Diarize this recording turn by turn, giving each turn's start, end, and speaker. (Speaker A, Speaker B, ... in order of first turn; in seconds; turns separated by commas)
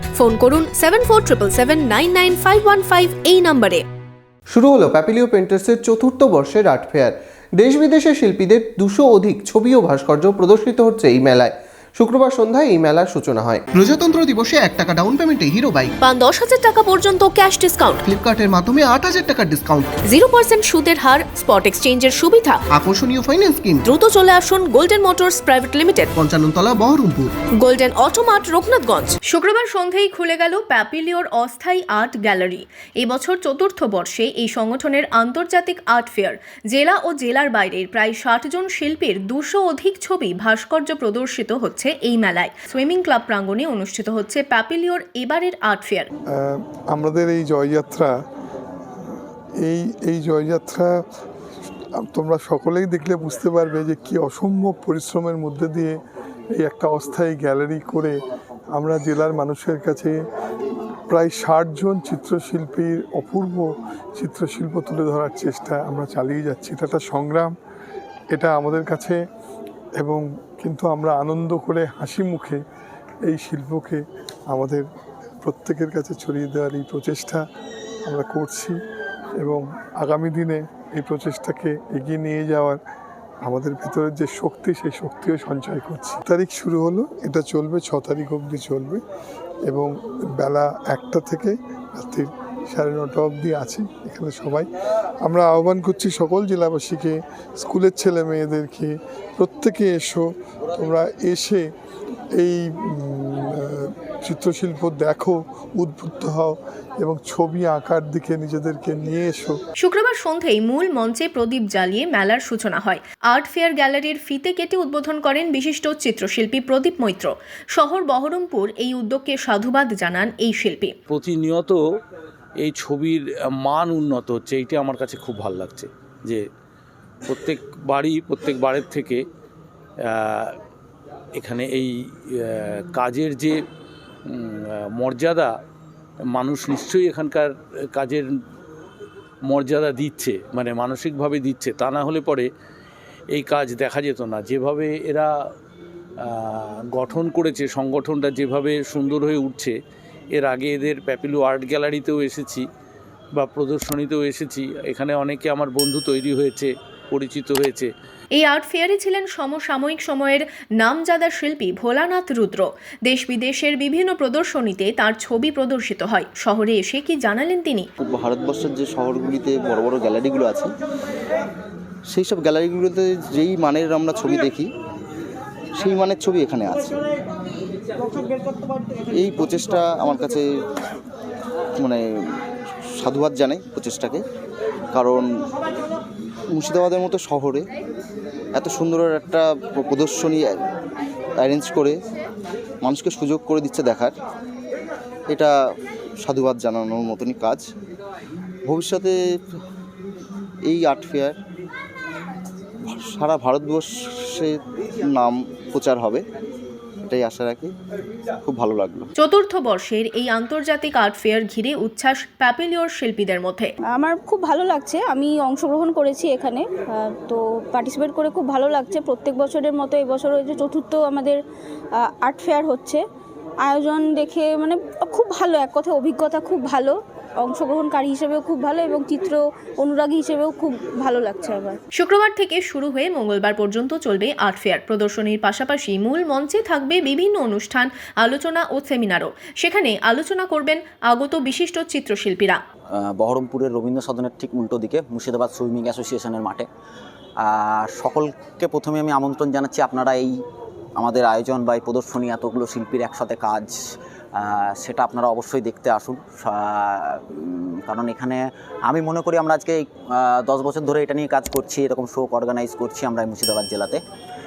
Speaker A: 0.2-3.8, Speaker B: 4.5-7.1, Speaker B: 7.6-11.5, Speaker B: 12.0-14.8, Speaker B: 15.5-15.9, Speaker A: 16.0-18.0, Speaker A: 20.1-22.6, Speaker B: 22.8-23.8, Speaker A: 23.9-26.1, Speaker B: 26.3-27.3, Speaker A: 27.6-46.1, Speaker C: 46.4-48.1, Speaker C: 49.6-50.9, Speaker C: 52.0-56.0, Speaker C: 56.6-58.2, Speaker C: 58.8-60.1, Speaker C: 61.1-67.5, Speaker C: 68.3-69.2, Speaker C: 70.0-72.6, Speaker C: 73.3-74.8, Speaker C: 75.4-77.4, Speaker C: 78.1-78.8, Speaker C: 79.4-82.8, Speaker C: 83.5-89.0, Speaker C: 89.7-94.7, Speaker C: 95.2-101.6, Speaker C: 102.4-109.5, Speaker A: 109.8-121.0, Speaker D: 121.1-121.8, Speaker D: 122.6-126.4, Speaker D: 127.3-129.2, Speaker D: 130.1-130.6, Speaker D: 131.4-133.6, Speaker D: 134.2-135.5, Speaker D: 136.3-138.3, Speaker D: 139.4-142.5, Speaker D: 143.3-145.3, Speaker D: 146.2-149.8, Speaker D: 150.3-152.6, Speaker D: 153.3-157.9, Speaker A: 158.3-167.9, Speaker E: 168.0-170.7, Speaker E: 172.1-174.7, Speaker E: 175.8-177.0, Speaker E: 179.1-180.5, Speaker E: 183.0-184.2, Speaker E: 184.9-185.2, Speaker E: 186.5-187.6, Speaker E: 188.5-190.4, Speaker E: 191.4-191.9, Speaker E: 192.8-194.1, Speaker E: 196.2-197.6, Speaker E: 198.7-199.1, Speaker E: 200.7-201.3, Speaker E: 202.9-204.5, Speaker E: 205.1-206.2, Speaker E: 207.1-207.7, Speaker E: 208.4-209.1, Speaker A: 209.2-213.7, Speaker F: 213.9-221.4, Speaker F: 222.0-223.0, Speaker F: 223.7-231.8, Speaker A: 231.9-242.6, Speaker G: 242.9-246.7, Speaker G: 247.4-250.3, Speaker G: 251.0-253.8, Speaker G: 254.3-264.0